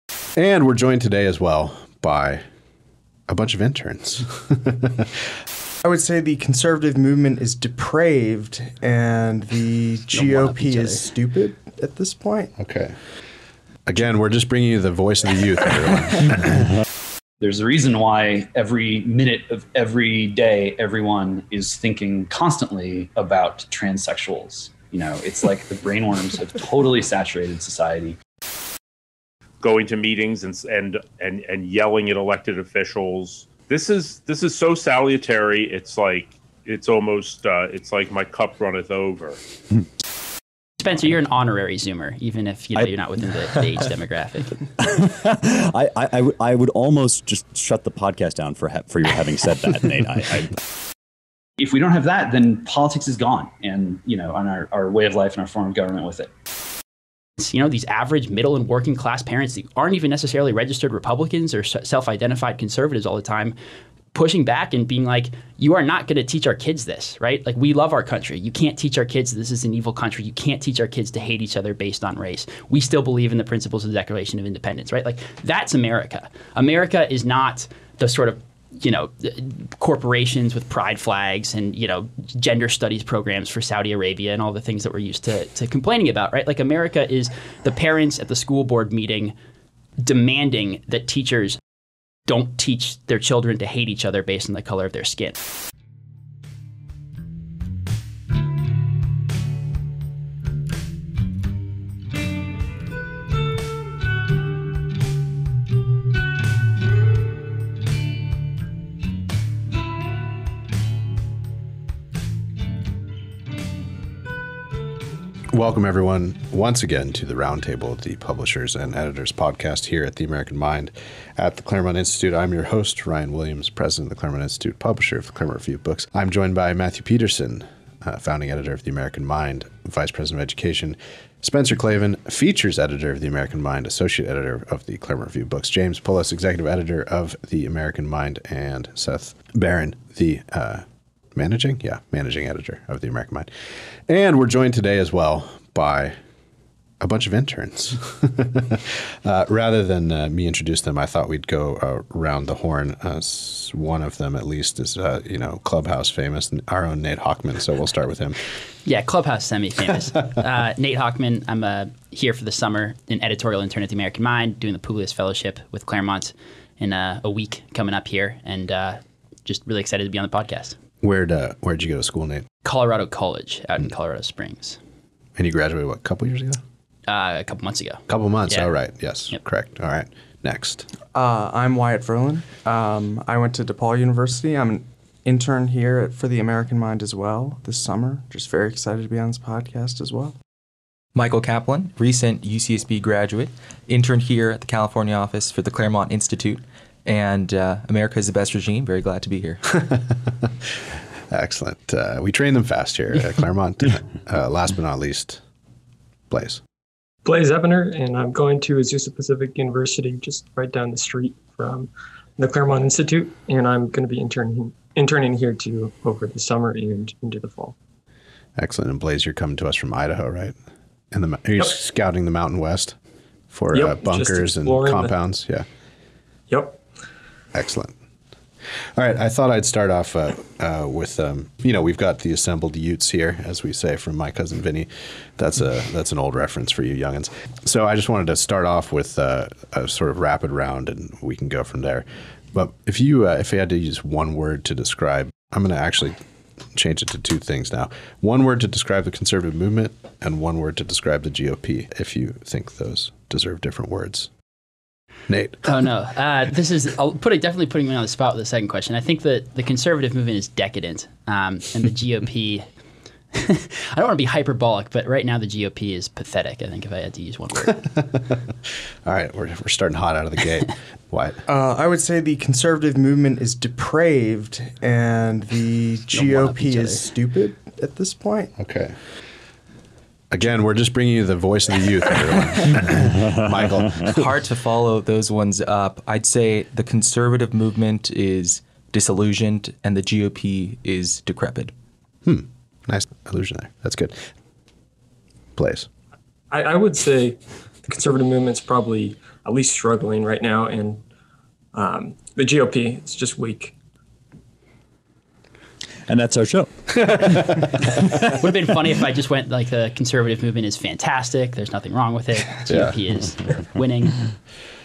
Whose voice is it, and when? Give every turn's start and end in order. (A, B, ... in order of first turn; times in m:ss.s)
0:00.3-0:02.4 A
0:03.3-0:05.2 A
0:05.8-0:12.5 B
0:10.5-0:10.9 C
0:12.6-0:12.9 A
0:13.8-0:16.7 A
0:17.4-0:28.2 D
0:29.6-0:39.4 E
0:40.8-0:44.5 C
0:44.8-0:50.5 F
0:51.6-0:56.3 D
0:57.4-1:03.5 C
1:04.1-1:29.3 C
1:30.0-1:31.6 C
1:32.3-1:35.4 C
1:55.5-2:20.8 A
2:21.3-2:23.5 A
2:24.1-2:26.2 A
2:27.0-2:38.4 A
2:38.8-2:50.8 C
2:51.0-2:52.4 A
2:52.6-2:54.8 C
2:55.4-2:56.6 A
2:57.1-2:58.7 C
2:58.1-3:00.9 A
3:01.1-3:10.4 B
3:11.1-3:19.6 G
3:19.8-3:20.8 A
3:21.3-3:25.4 A
3:26.3-3:26.6 A
3:27.2-3:37.7 H
3:38.6-3:40.6 A
3:41.1-3:43.0 A
3:43.5-3:45.6 A
3:43.7-3:45.1 H
3:46.5-3:46.8 H
3:47.5-3:47.9 A
3:48.9-4:06.2 A
4:06.7-4:14.3 A
4:15.3-4:15.7 A
4:15.6-4:22.6 C
4:23.3-4:27.8 C
4:27.6-4:31.4 A
4:31.5-4:38.5 B
4:36.1-4:37.0 C
4:38.6-4:38.9 A
4:40.3-4:44.2 A
4:44.0-4:51.7 G
4:52.2-4:54.3 A
4:55.6-4:55.9 A
4:56.5-5:01.0 H
5:01.7-5:03.7 H
5:06.1-5:06.8 F
5:07.0-5:07.5 A
5:08.3-5:14.2 C
5:12.7-5:12.9 A